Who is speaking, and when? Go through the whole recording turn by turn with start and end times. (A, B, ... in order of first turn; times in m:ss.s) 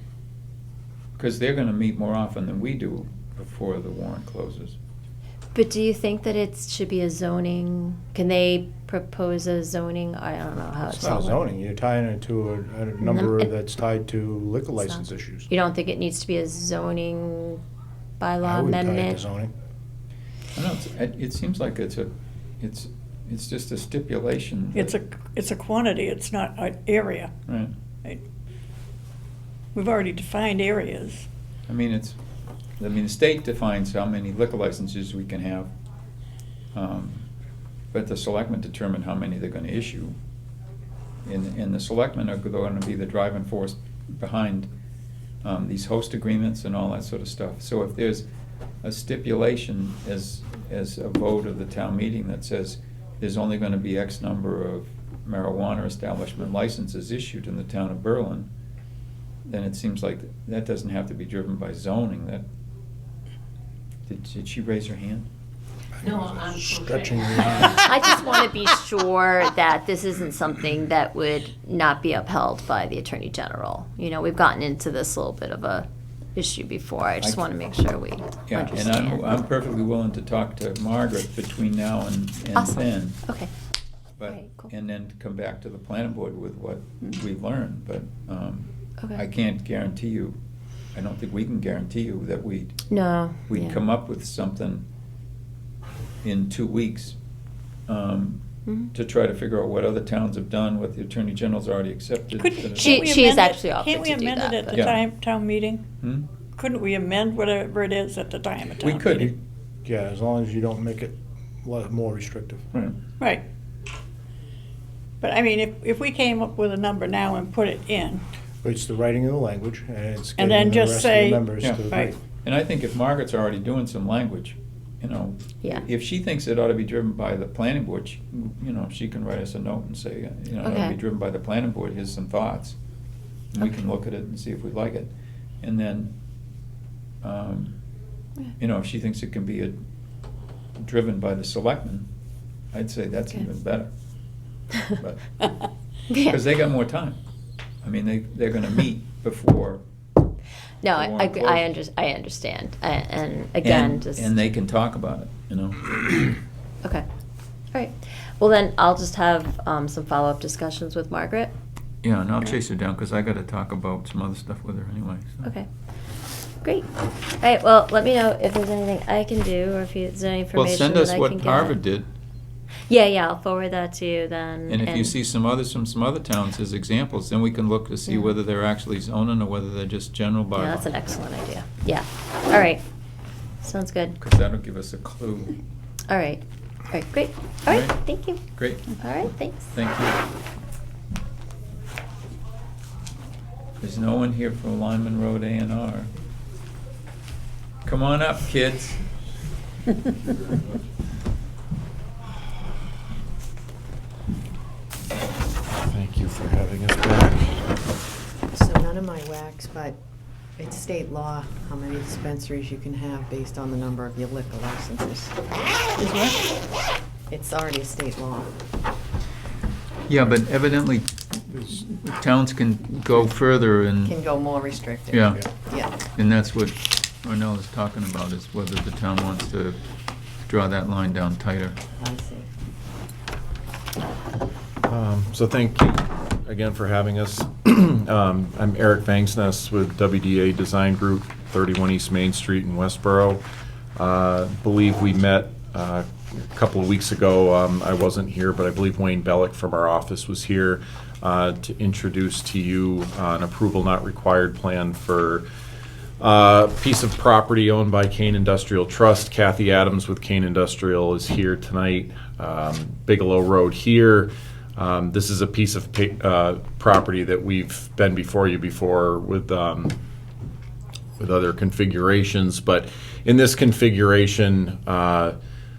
0:01.2-0:04.8 A
0:05.5-0:11.4 B
0:10.9-0:15.5 C
0:13.0-0:13.5 B
0:14.8-0:17.6 B
0:18.2-0:19.2 B
0:18.4-0:19.5 C
0:20.5-0:24.9 A
0:24.7-0:27.3 D
0:27.5-0:27.7 A
0:29.7-0:31.2 D
0:31.7-0:32.2 A
0:32.8-0:35.7 A
0:36.7-0:37.3 A
0:37.9-0:40.2 A
0:41.2-0:44.7 A
0:45.4-0:48.2 A
0:48.8-0:58.5 A
0:59.4-1:02.4 A
1:04.1-1:05.3 A
1:06.0-1:08.0 C
1:07.8-1:19.4 B
1:18.5-1:23.2 A
1:22.5-1:23.5 B
1:24.2-1:30.4 A
1:24.2-1:24.7 B
1:30.9-1:32.8 A
1:32.9-1:33.8 B
1:33.5-1:34.8 A
1:36.2-1:37.1 A
1:37.9-1:38.4 A
1:38.6-1:38.9 B
1:38.9-1:43.2 A
1:42.4-1:45.8 D
1:42.8-1:44.9 B
1:44.7-1:45.0 A
1:46.0-1:46.2 A
1:46.6-1:49.3 D
1:48.8-1:49.4 A
1:49.1-1:52.7 C
1:55.2-1:58.2 D
1:58.6-2:02.2 C
2:00.4-2:02.1 D
2:01.6-2:01.9 A
2:02.4-2:12.8 A
2:10.6-2:11.0 B
2:13.5-2:16.1 A
2:17.2-2:17.8 A
2:18.6-2:19.8 A
2:20.8-2:22.1 A
2:22.7-2:23.9 A
2:25.0-2:25.5 A
2:26.1-2:26.4 B
2:26.2-2:27.2 A
2:27.8-2:29.8 A
2:30.8-2:34.4 B
2:30.9-2:31.7 A
2:33.6-2:36.3 A
2:37.7-2:41.5 B
2:42.0-2:45.5 A
2:47.4-2:51.8 B
2:50.5-2:52.1 A
2:52.9-2:55.1 B
2:54.7-3:00.9 A
2:58.1-2:58.3 B
3:00.6-3:02.8 B
3:03.6-3:04.1 B
3:04.2-3:05.6 A
3:06.1-3:08.4 B
3:07.7-3:09.0 A
3:09.0-3:09.7 B
3:09.7-3:10.2 A
3:13.8-3:16.1 A
3:17.8-3:19.0 A
3:25.8-3:27.6 E
3:28.5-3:30.0 F
3:30.6-3:36.1 F
3:37.3-3:38.5 F
3:40.1-3:44.1 A
3:44.0-3:46.0 F
3:45.1-3:45.4 A
3:46.2-3:49.8 A
3:50.5-3:51.8 A
3:52.0-3:52.5 F
3:54.9-4:03.4 E
4:04.0-4:15.4 E
4:16.2-4:29.9 E
4:31.2-4:35.3 E